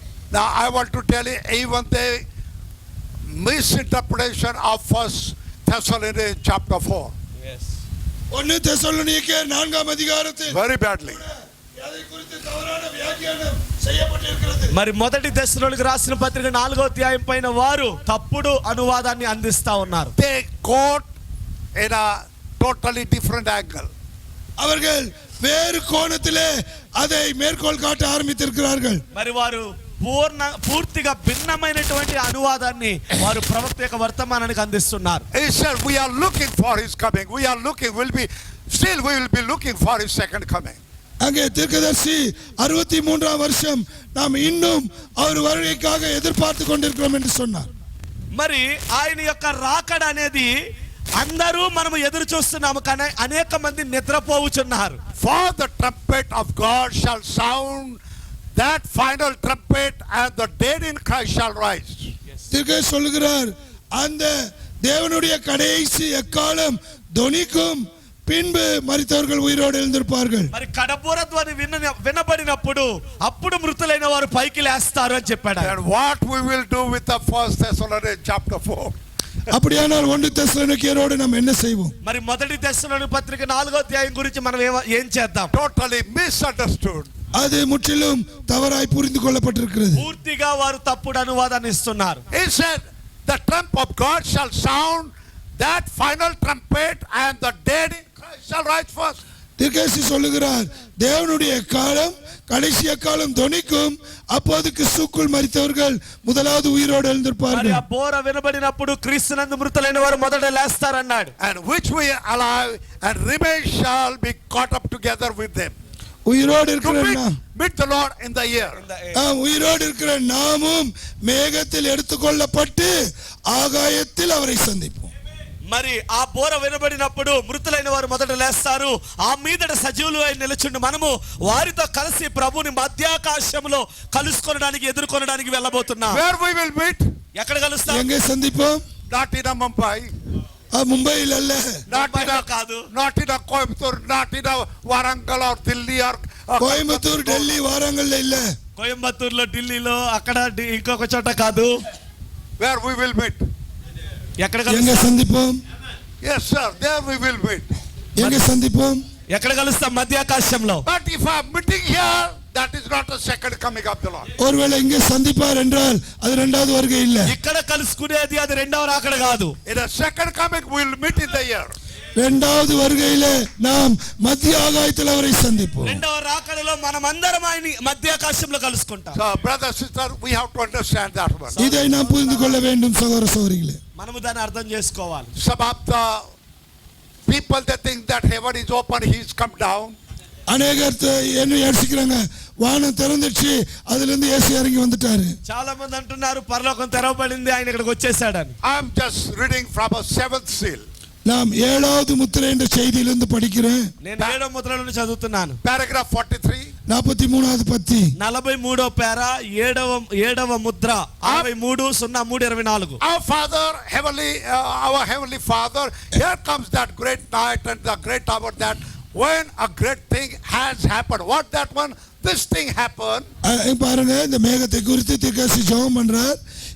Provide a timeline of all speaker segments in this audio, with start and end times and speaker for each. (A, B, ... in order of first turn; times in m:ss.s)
0:00.3-0:02.2 A
0:03.3-0:07.1 A
0:07.4-0:07.7 B
0:08.3-0:14.8 C
0:10.5-0:11.2 A
0:14.7-0:20.2 B
0:20.2-0:21.1 A
0:21.8-0:23.9 A
0:24.6-0:29.0 C
0:29.1-0:35.2 B
0:35.3-0:40.8 A
0:41.2-0:47.7 C
0:48.3-0:50.5 B
0:51.2-0:55.0 B
0:55.2-0:58.0 A
0:58.6-1:02.1 A
1:02.5-1:10.5 C
1:10.5-1:15.7 B
1:15.6-1:19.0 A
1:19.5-1:21.9 C
1:22.0-1:25.5 B
1:25.5-1:27.1 A
1:27.3-1:30.1 C
1:30.0-1:32.2 B
1:32.3-1:39.2 A
1:39.6-1:47.8 C
1:47.5-1:51.3 B
1:51.4-1:55.7 A
1:56.3-1:57.4 C
1:56.8-1:58.8 A
1:58.8-1:59.2 B
1:59.2-2:03.0 C
2:03.5-2:05.1 C
2:05.7-2:16.2 B
2:16.1-2:17.1 A
2:17.4-2:18.1 B
2:17.9-2:18.8 C
2:19.1-2:20.1 A
2:20.8-2:21.8 C
2:21.9-2:22.8 B
2:21.9-2:27.6 A
2:26.6-2:28.5 C
2:28.8-2:31.7 B
2:32.6-2:33.4 A
2:34.4-2:35.2 B
2:34.7-2:35.6 C
2:36.2-2:37.8 A
2:38.2-2:39.0 C
2:38.2-2:38.6 B
2:39.3-2:40.9 B
2:40.8-2:44.3 A
2:44.4-2:47.3 C
2:47.2-2:49.6 B
2:49.7-2:51.7 A
2:52.2-2:56.0 C
2:55.8-2:59.2 B
2:59.2-3:01.6 A
3:01.6-3:02.6 B
3:01.6-3:03.8 C
3:04.0-3:05.3 B
3:05.4-3:06.2 A
3:07.3-3:10.0 A
3:10.5-3:15.4 C
3:15.5-3:18.6 B
3:18.6-3:20.8 A
3:21.3-3:23.9 C
3:24.0-3:25.6 B
3:25.6-3:26.7 A
3:26.9-3:28.1 C
3:28.2-3:33.0 B
3:31.2-3:31.5 A
3:33.0-3:43.3 A
3:43.4-3:46.4 C